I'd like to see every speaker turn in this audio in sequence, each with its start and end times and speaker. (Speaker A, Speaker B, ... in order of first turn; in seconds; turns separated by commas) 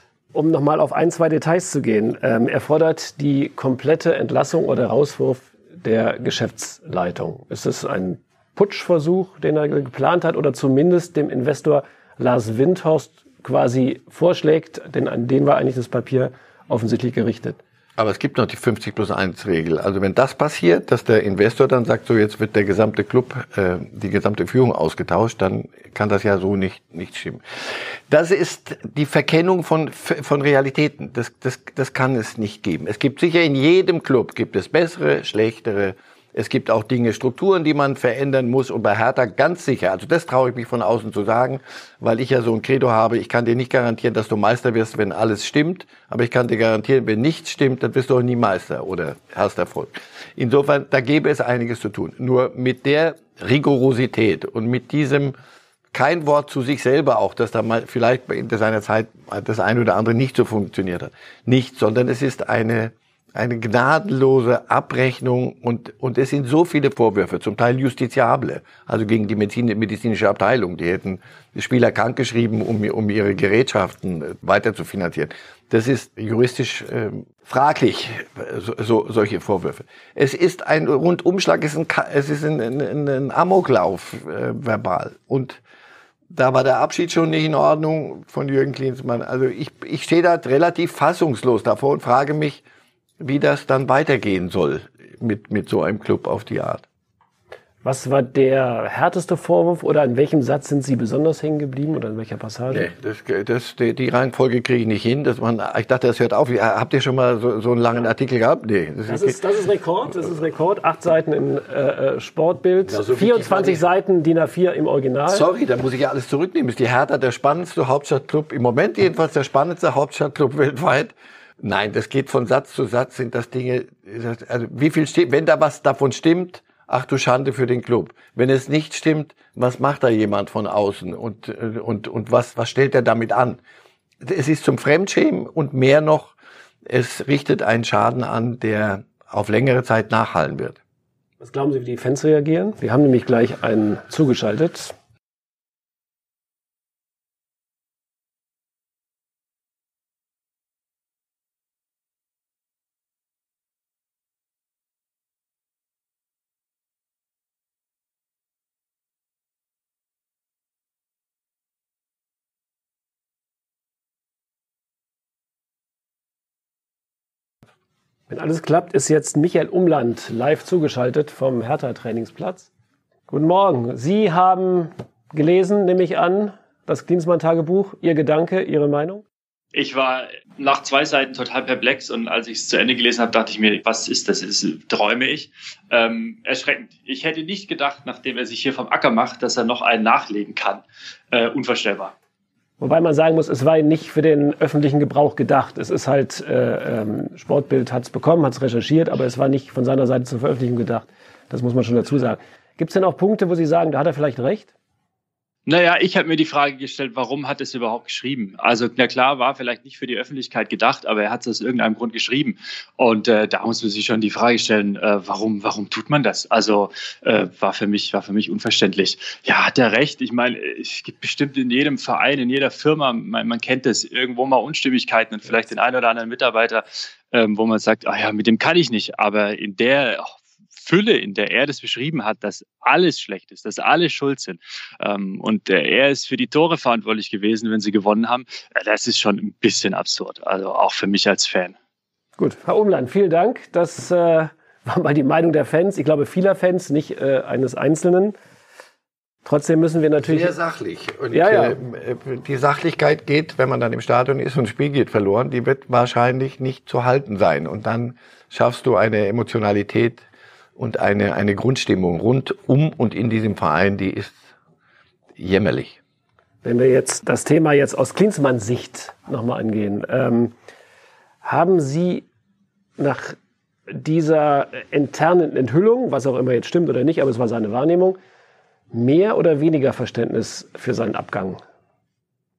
Speaker A: 0.3-17.6, Speaker B: 18.0-55.4, Speaker B: 55.9-85.6, Speaker B: 86.3-92.6, Speaker B: 93.2-96.8, Speaker A: 97.8-102.9, Speaker B: 102.7-109.4, Speaker A: 109.1-115.5, Speaker B: 112.8-113.8, Speaker B: 115.3-133.6, Speaker B: 134.2-136.3, Speaker B: 136.9-140.8, Speaker A: 141.4-144.9, Speaker A: 168.3-172.7, Speaker A: 173.3-179.2, Speaker C: 179.7-192.1, Speaker A: 192.8-204.7, Speaker C: 205.7-241.7, Speaker A: 242.4-248.3, Speaker A: 249.4-250.5, Speaker B: 250.2-260.2, Speaker A: 251.3-251.8, Speaker B: 260.8-264.4, Speaker B: 265.4-266.0, Speaker A: 266.6-270.5, Speaker A: 271.4-272.2, Speaker A: 273.0-273.4, Speaker A: 273.9-278.2, Speaker A: 278.9-281.6